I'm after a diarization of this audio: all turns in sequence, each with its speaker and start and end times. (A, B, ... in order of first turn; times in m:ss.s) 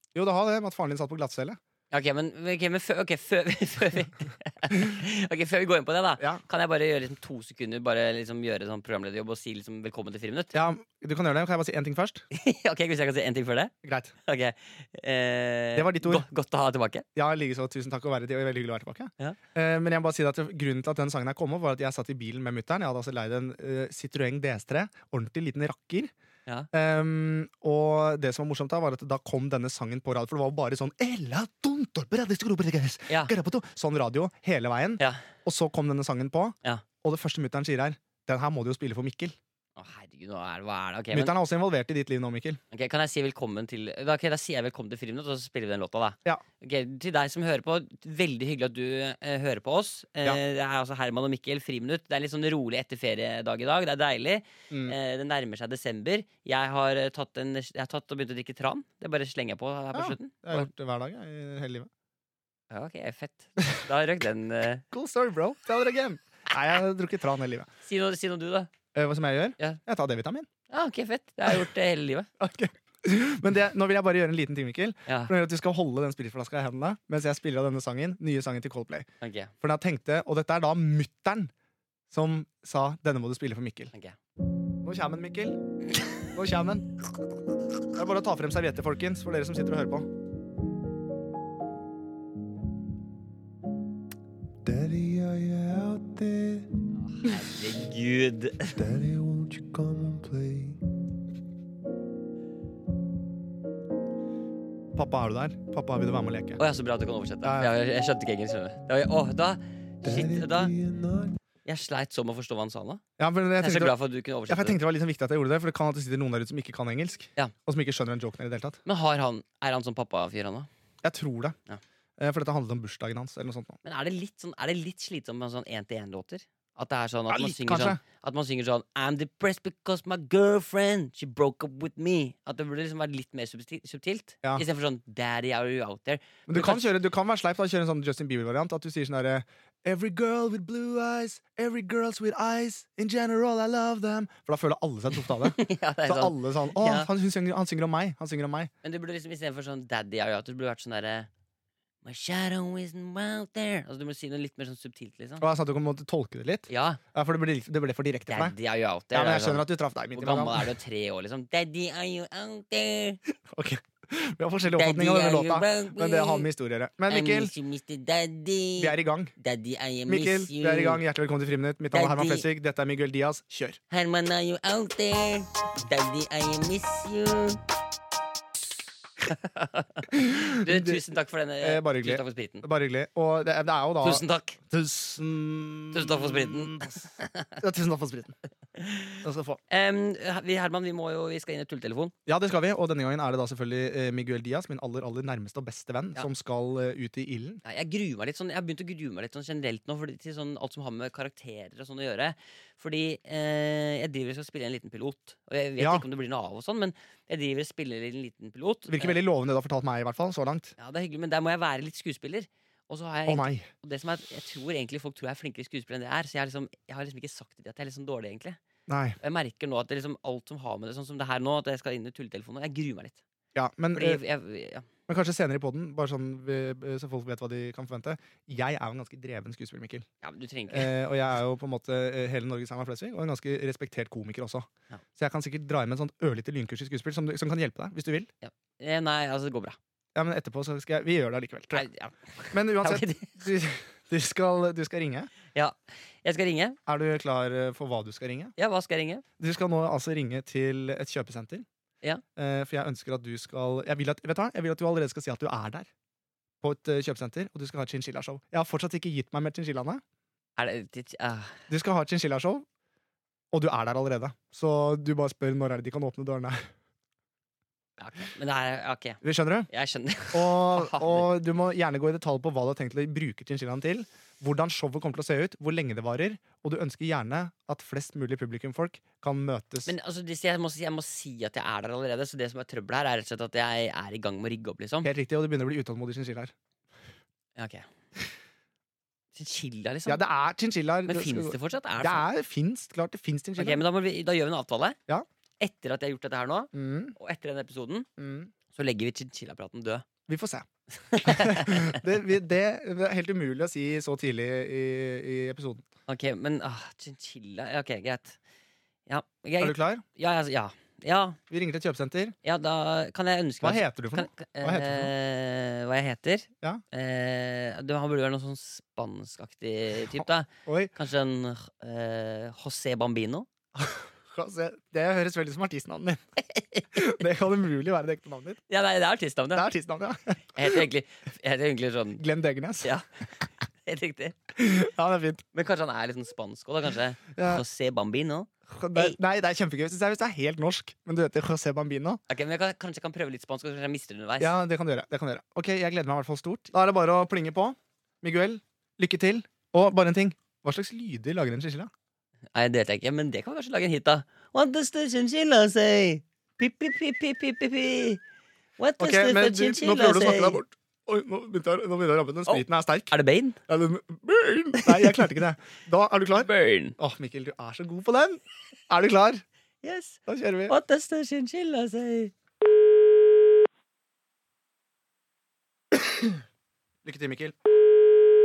0:00.2-0:01.6 A
0:01.9-0:10.6 B
0:10.5-0:12.2 A
0:12.3-0:13.7 B
0:13.8-0:14.1 A
0:14.3-0:17.0 B
0:15.8-0:16.2 A
0:17.2-0:26.1 A
0:26.7-0:39.4 A
0:39.8-0:41.3 B
0:41.1-0:42.6 A
0:42.7-1:00.7 B
0:54.7-0:55.0 A
0:59.9-1:01.9 A
1:02.7-1:04.8 B
1:04.9-1:07.7 A
1:07.8-1:08.7 B
1:08.9-1:10.5 A
1:10.7-1:12.3 B
1:12.4-1:19.1 A
1:15.1-1:15.3 B
1:19.2-1:19.5 B
1:19.6-1:21.5 A
1:22.1-1:23.9 A
1:23.9-1:24.2 B
1:24.8-1:25.6 A
1:26.3-1:26.9 A
1:27.9-1:30.1 A
1:34.6-1:36.7 C
1:37.0-1:38.8 B
1:38.8-1:40.8 C
1:44.9-1:46.6 A
1:46.6-1:50.7 B
1:47.4-1:47.7 A
1:50.0-1:51.4 C
1:51.6-1:53.0 B
1:53.2-1:54.0 A
1:53.6-1:54.8 B
1:54.5-1:58.8 A
1:58.9-2:00.7 B
2:01.0-2:01.6 A
2:02.2-2:03.8 A
2:03.8-2:16.8 B
2:07.3-2:08.0 A
2:16.5-2:28.7 A
2:25.4-2:27.1 B
2:28.8-2:31.3 B
2:32.0-2:35.4 B
2:35.4-2:38.6 A
2:36.7-2:37.0 B
2:38.3-2:43.2 B
2:39.1-2:40.7 A
2:43.5-2:47.5 A
2:44.7-2:46.5 B
2:47.1-2:51.0 B
2:48.8-2:49.3 A
2:50.1-2:53.8 A
2:51.9-2:52.5 B
2:53.9-2:57.6 B
2:59.3-3:02.6 B
3:00.1-3:01.0 A
3:01.6-3:07.0 A
3:04.0-3:04.6 B
3:05.9-3:07.6 B
3:07.6-3:08.4 A
3:08.8-3:12.1 B
3:09.2-3:09.6 A
3:12.3-3:17.6 A
3:17.6-3:29.2 B
3:25.8-3:26.0 A
3:28.9-3:30.7 A
3:30.8-3:38.6 B
3:33.3-3:33.7 A
3:38.9-3:39.2 A
3:39.2-3:43.2 B
3:43.6-3:44.2 A
3:44.0-3:44.9 B
3:45.1-3:50.1 A
3:50.2-3:50.9 B
3:50.7-3:58.3 A
3:58.4-3:59.8 B
4:00.2-4:01.9 A
4:01.7-4:03.4 B
4:02.5-4:05.3 A
4:05.5-4:06.8 B
4:06.9-4:08.5 A
4:08.6-4:09.2 B
4:09.4-4:11.6 A
4:12.4-4:15.9 A
4:16.6-4:20.0 A
4:20.6-4:21.6 B
4:21.7-4:22.6 A
4:23.5-4:26.7 A
4:28.0-4:31.3 B
4:29.2-4:29.7 A
4:30.3-4:39.9 A
4:39.9-4:45.1 B
4:45.0-4:46.5 A
4:47.6-4:47.9 B
4:49.4-4:50.2 B
4:50.1-4:53.8 A
4:51.1-4:52.2 B
4:53.6-4:55.0 B
4:55.6-4:58.1 B
4:56.7-4:57.2 A
4:58.2-4:58.5 A
4:58.7-5:00.0 B
5:00.3-5:00.7 A
5:01.0-5:02.0 B
5:01.2-5:05.8 A
5:06.1-5:08.4 B
5:09.1-5:11.4 B
5:09.6-5:10.0 A
5:11.5-5:12.4 A
5:12.4-5:23.5 B
5:13.6-5:15.1 A
5:20.1-5:20.9 A
5:23.8-5:26.2 A
5:26.9-5:28.6 A
5:28.7-5:29.6 B
5:29.6-5:30.8 A
5:30.6-5:32.2 B
5:32.2-5:32.9 A
5:33.8-5:34.4 B
5:34.6-5:35.4 A
5:35.5-5:39.2 B
5:37.4-5:37.6 A
5:38.7-5:42.2 A
5:42.3-5:44.5 B
5:44.4-5:51.9 A
5:52.5-5:58.2 B
5:58.8-6:00.6 B
5:59.0-6:03.1 A
6:02.5-6:03.6 B
6:03.7-6:09.4 A
6:04.8-6:05.2 B
6:06.4-6:07.0 B
6:09.8-6:12.3 B
6:10.3-6:10.8 A
6:17.0-6:17.6 A